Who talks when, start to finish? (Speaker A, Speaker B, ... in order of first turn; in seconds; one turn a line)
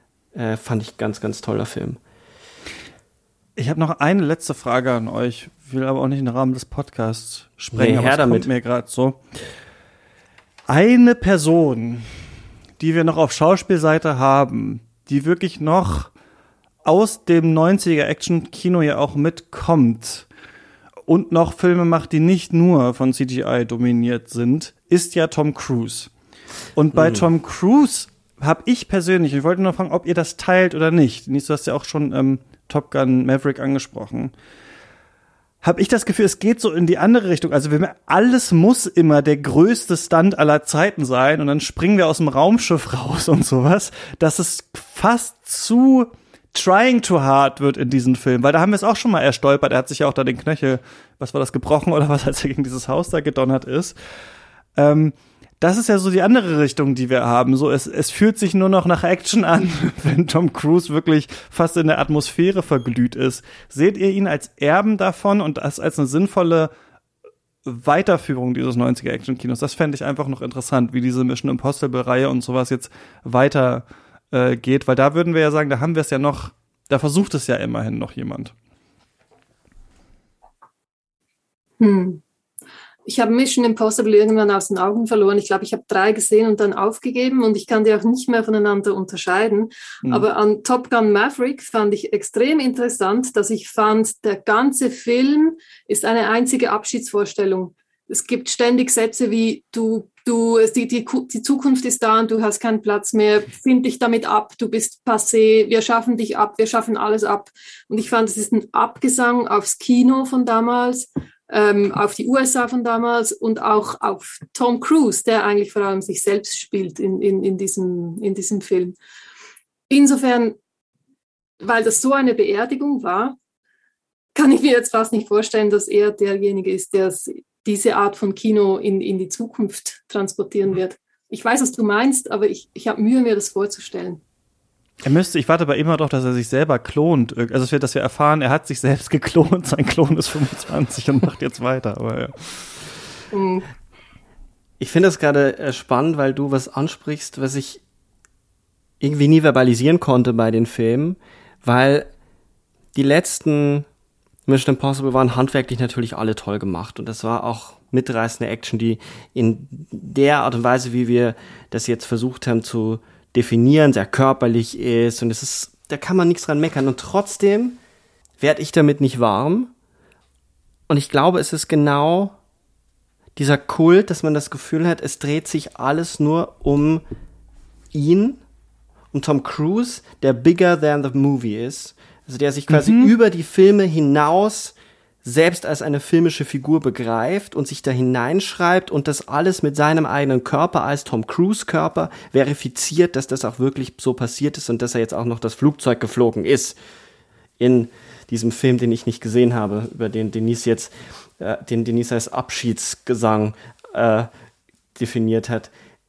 Speaker A: 0.3-2.0
Speaker B: 3.6-9.2
Speaker A: 7.7-8.5
Speaker B: 10.7-12.1
Speaker B: 12.8-16.1
Speaker B: 16.8-20.2
Speaker B: 21.1-26.1
Speaker B: 26.8-34.3
Speaker A: 26.9-27.3
Speaker B: 35.6-53.9
Speaker B: 54.8-66.7
Speaker B: 67.6-78.5
Speaker C: 81.8-82.2
Speaker C: 83.0-119.0
Speaker C: 119.9-120.5
Speaker C: 121.6-123.3
Speaker C: 124.3-134.2
Speaker B: 135.0-142.7
Speaker C: 143.3-143.7
Speaker A: 144.8-147.8
Speaker A: 149.0-152.1
Speaker A: 152.9-153.9
Speaker A: 154.5-167.8
Speaker A: 168.4-169.7
Speaker A: 170.9-172.3
Speaker A: 173.3-177.0
Speaker A: 177.9-178.4
Speaker A: 179.1-196.8
Speaker B: 182.7-183.1
Speaker A: 197.6-204.3
Speaker A: 204.9-205.7